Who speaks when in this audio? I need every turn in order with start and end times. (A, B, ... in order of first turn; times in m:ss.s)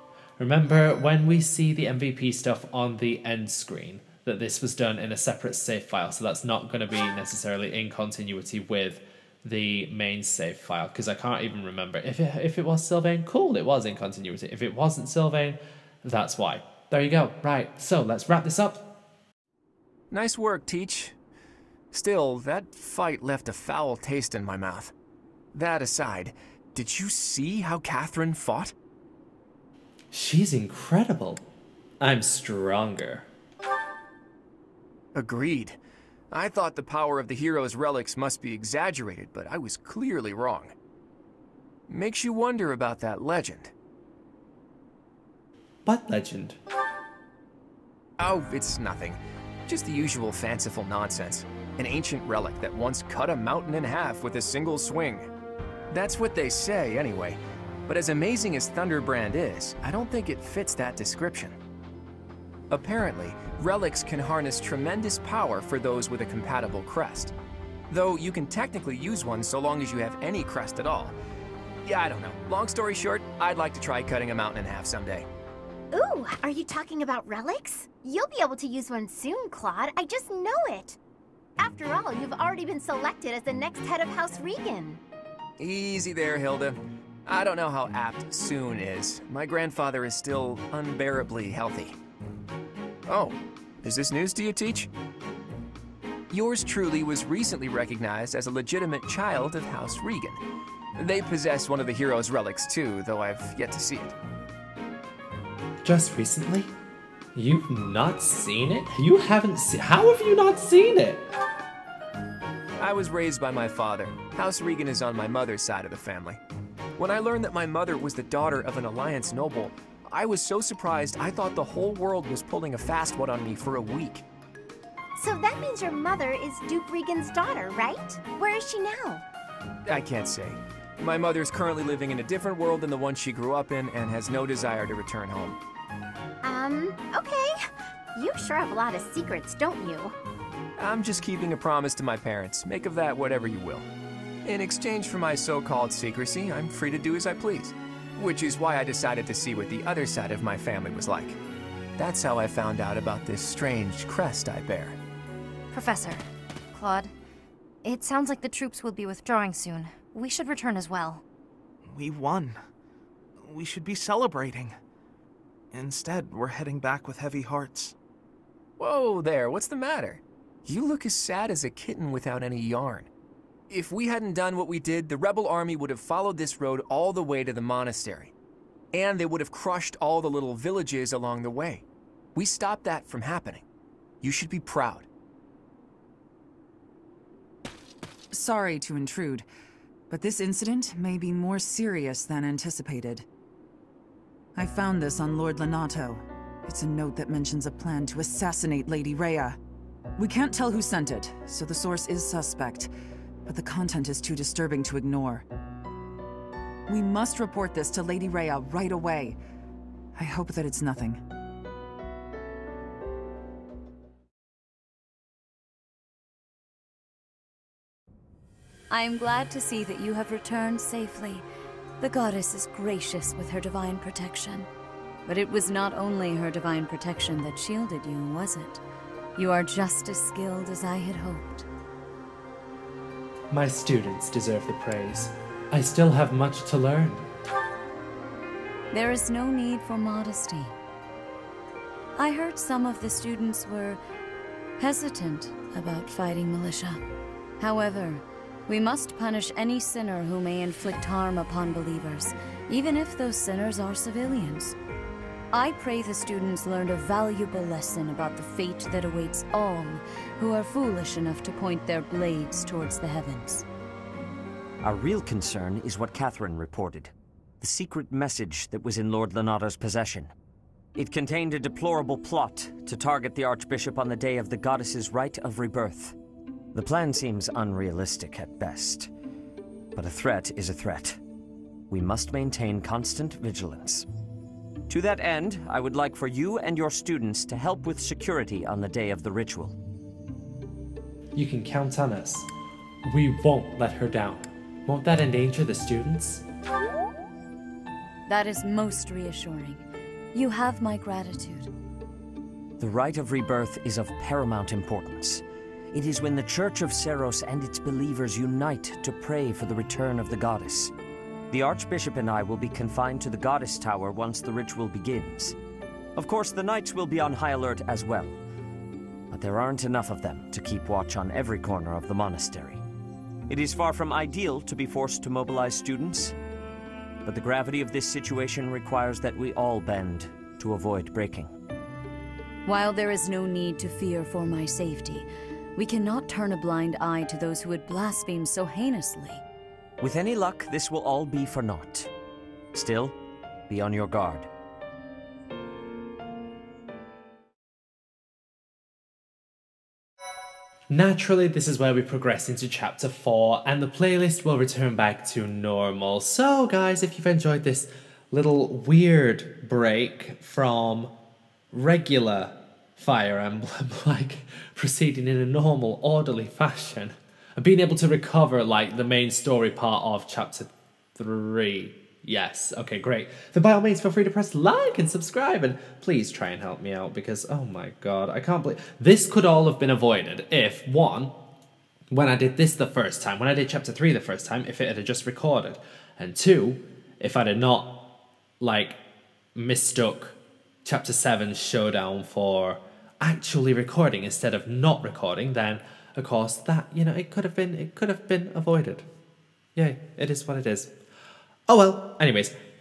0:00.4-0:18.8 A
0:20.1-0:21.2 B
0:21.9-0:24.9 B
0:25.5-0:28.7 B
0:30.1-0:31.4 A
0:32.0-0:33.3 A
0:35.2-0:35.8 B
0:36.3-0:40.7 B
0:41.9-0:43.7 B
0:45.9-0:46.6 A
0:48.2-0:55.3 B
0:55.9-1:01.6 B
1:02.7-1:07.3 B
1:07.9-1:11.2 B
1:11.8-1:15.3 B
1:15.9-1:21.0 C
1:21.6-1:25.0 C
1:25.6-1:32.0 B
1:33.1-1:34.9 B
1:36.3-1:40.4 B
1:41.0-1:44.2 B
1:45.8-1:46.7 A
1:47.4-1:51.3 A
1:52.8-1:56.4 B
1:57.0-2:04.2 B
2:05.2-2:09.2 C
2:09.9-2:15.6 B
2:16.4-2:17.5 C
2:18.2-2:20.2 C
2:20.8-2:23.9 B
2:24.4-2:31.4 B
2:32.0-2:35.0 B
2:35.7-2:37.1 D
2:37.8-2:41.2 D
2:41.8-2:42.6 E
2:43.4-2:44.8 E
2:45.7-2:48.0 E
2:48.8-2:53.1 B
2:53.7-2:58.3 B
2:58.9-3:03.6 B
3:04.2-3:05.1 B
3:08.3-3:09.5 F
3:10.1-3:13.3 F
3:14.6-3:19.6 F
3:20.2-3:22.9 F
3:23.5-3:25.5 F
3:26.9-3:29.4 F
3:30.2-3:31.2 F
3:38.9-3:41.5 G
3:42.0-3:44.7 G
3:45.3-3:48.8 G
3:49.4-3:51.7 G
3:53.5-3:57.3 A
3:58.9-4:00.8 G
4:02.2-4:04.0 G
4:04.8-4:07.0 G
4:07.6-4:14.8 G
4:15.5-4:23.7 G
4:24.8-4:30.3 H
4:31.0-4:36.2 H
4:36.7-4:39.1 H
4:40.0-4:41.2 H
4:41.9-4:44.1 H
4:44.9-4:49.8 H
4:51.4-4:52.5 A
4:53.0-4:56.4 A
4:58.3-5:01.7 G
5:02.8-5:10.9 H
5:11.5-5:15.6 H
5:16.2-5:18.4 H
5:19.3-5:22.8 H
5:23.5-5:26.4 H
5:27.2-5:31.5 H
5:32.7-5:39.4 G
5:40.0-5:42.1 H
5:42.7-5:43.1 H
5:43.7-5:44.5 H
5:50.9-6:01.1 A
6:01.7-6:21.3 A
6:22.1-6:28.0 A
6:28.6-6:29.0 A
6:29.6-6:39.1 A
6:39.8-6:40.9 A
6:41.7-6:42.6 A